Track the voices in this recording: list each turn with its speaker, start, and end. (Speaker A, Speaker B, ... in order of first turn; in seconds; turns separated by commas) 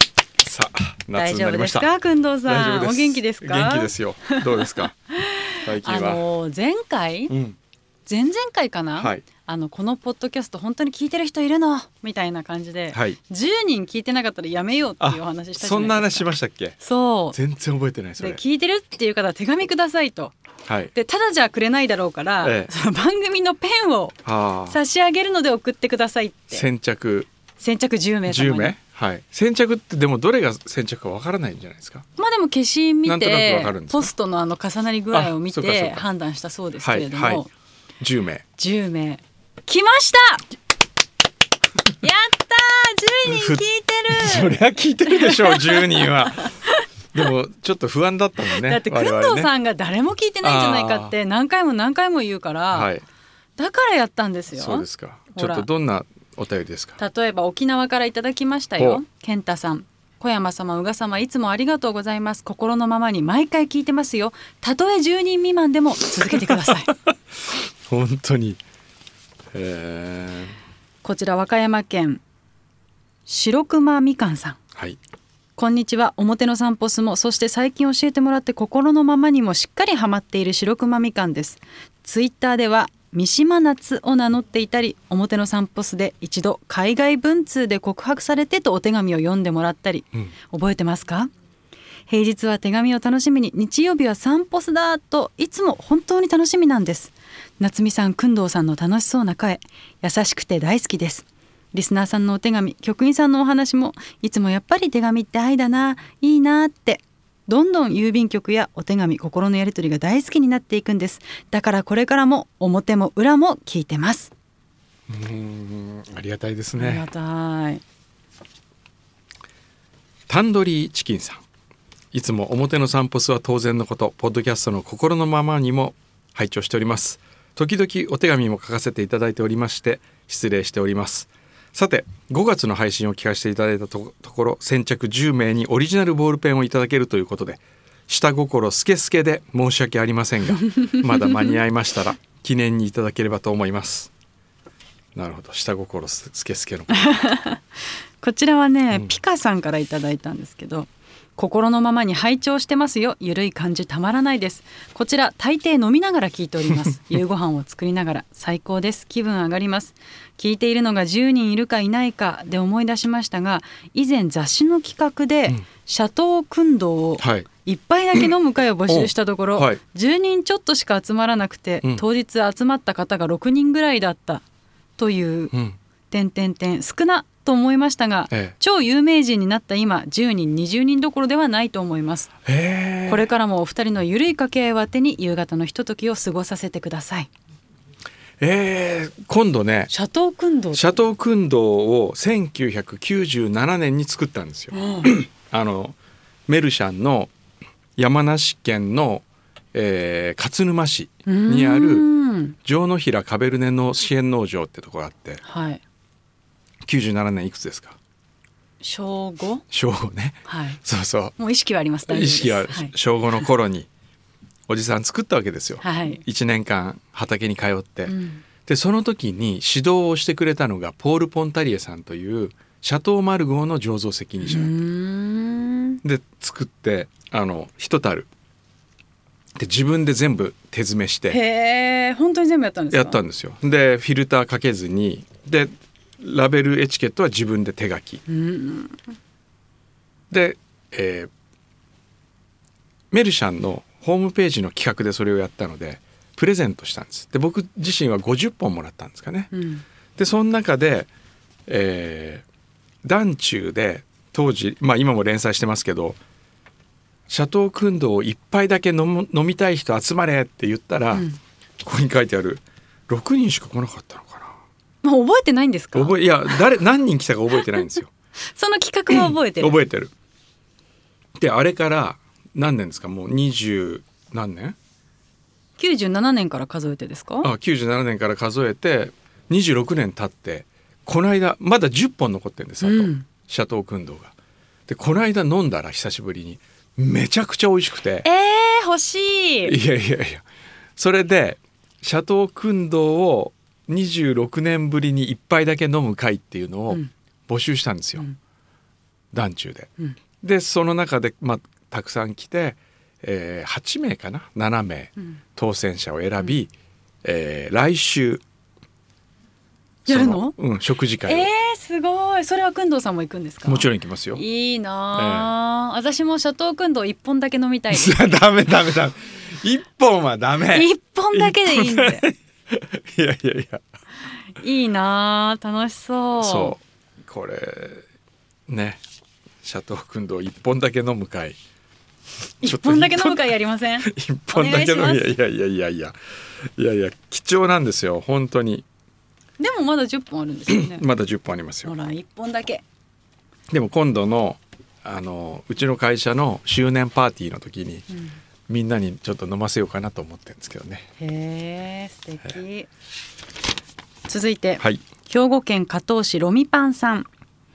Speaker A: 0.4-1.9, Speaker B: 1.1-4.5, Speaker A: 2.5-5.0, Speaker B: 5.2-7.3, Speaker A: 5.6-6.2, Speaker A: 7.3-7.6, Speaker B: 8.1-17.4, Speaker A: 9.0-9.2, Speaker A: 12.9-13.2, Speaker A: 15.0-16.8, Speaker A: 17.3-18.4, Speaker B: 18.2-20.4, Speaker A: 20.7-20.9, Speaker B: 20.9-24.2, Speaker A: 22.4-22.7, Speaker A: 24.2-24.8, Speaker B: 24.7-26.7, Speaker A: 26.5-27.3, Speaker B: 27.6-28.7, Speaker A: 28.3-32.1, Speaker B: 32.2-37.5, Speaker A: 33.0-34.1, Speaker A: 35.1-36.0, Speaker A: 36.8-37.5, Speaker A: 38.0-38.5, Speaker B: 38.6-40.5, Speaker B: 42.0-44.5, Speaker A: 43.2-46.6, Speaker B: 45.1-46.9, Speaker A: 47.1-49.5, Speaker B: 48.5-52.9, Speaker A: 50.4-51.1, Speaker A: 52.7-53.0, Speaker B: 53.6-55.7, Speaker A: 54.5-57.0, Speaker B: 57.0-66.9, Speaker A: 67.9-68.6, Speaker A: 69.5-70.5, Speaker B: 71.0-72.2, Speaker B: 73.3-74.6, Speaker B: 75.6-91.3, Speaker B: 92.1-114.3, Speaker A: 115.1-117.1, Speaker B: 116.8-117.8, Speaker A: 120.3-121.4, Speaker A: 122.1-144.1, Speaker B: 140.7-141.6, Speaker A: 145.2-147.1, Speaker B: 146.9-147.6, Speaker B: 148.2-174.4, Speaker A: 167.2-167.5, Speaker A: 168.9-169.8, Speaker B: 175.0-175.5, Speaker A: 175.5-175.8, Speaker B: 176.1-182.3, Speaker A: 178.3-178.6, Speaker A: 182.4-183.3, Speaker B: 183.1-187.3, Speaker A: 188.4-189.9, Speaker B: 189.9-191.0, Speaker A: 190.7-196.0, Speaker B: 194.7-195.1, Speaker A: 196.5-197.3, Speaker A: 198.0-202.1, Speaker B: 201.3-202.6, Speaker A: 202.6-205.4, Speaker B: 205.4-205.8, Speaker A: 206.9-208.0, Speaker B: 208.8-209.6, Speaker A: 209.7-211.3, Speaker B: 210.5-210.8, Speaker B: 211.4-212.9, Speaker A: 212.1-213.9, Speaker A: 214.7-218.1, Speaker B: 215.8-216.2, Speaker B: 218.1-218.4, Speaker A: 218.7-224.7, Speaker B: 224.4-226.0, Speaker A: 226.0-228.3, Speaker A: 229.6-231.4, Speaker B: 231.3-233.2, Speaker A: 232.9-238.2, Speaker B: 238.3-239.0, Speaker A: 240.3-241.3, Speaker A: 243.1-249.5, Speaker B: 249.5-249.8, Speaker A: 250.2-251.1, Speaker A: 251.7-252.5, Speaker A: 253.0-256.2, Speaker A: 257.3-261.2, Speaker A: 261.8-264.6, Speaker B: 265.0-266.6, Speaker A: 265.9-268.1, Speaker B: 268.5-269.8, Speaker A: 269.1-270.1, Speaker A: 271.4-274.8, Speaker B: 275.8-277.5, Speaker A: 277.4-284.3, Speaker B: 282.8-283.3, Speaker A: 284.9-288.3, Speaker B: 288.2-289.8, Speaker A: 289.6-290.4, Speaker A: 291.0-298.3, Speaker A: 299.3-306.7, Speaker A: 307.2-308.4, Speaker B: 310.1-310.6, Speaker A: 310.1-311.5, Speaker B: 311.3-318.4, Speaker A: 313.6-314.4, Speaker A: 315.1-315.5, Speaker A: 317.9-323.8, Speaker B: 320.7-322.3, Speaker B: 324.6-326.8, Speaker A: 326.4-328.0, Speaker A: 328.7-329.0, Speaker A: 329.6-331.6, Speaker B: 332.6-335.3, Speaker A: 332.6-333.5, Speaker A: 334.0-336.1, Speaker A: 336.8-338.9, Speaker B: 339.6-341.1, Speaker A: 340.7-341.9, Speaker B: 341.9-342.8, Speaker A: 343.7-348.1, Speaker A: 348.7-351.1, Speaker B: 351.2-352.9, Speaker B: 354.3-357.3, Speaker A: 354.8-355.1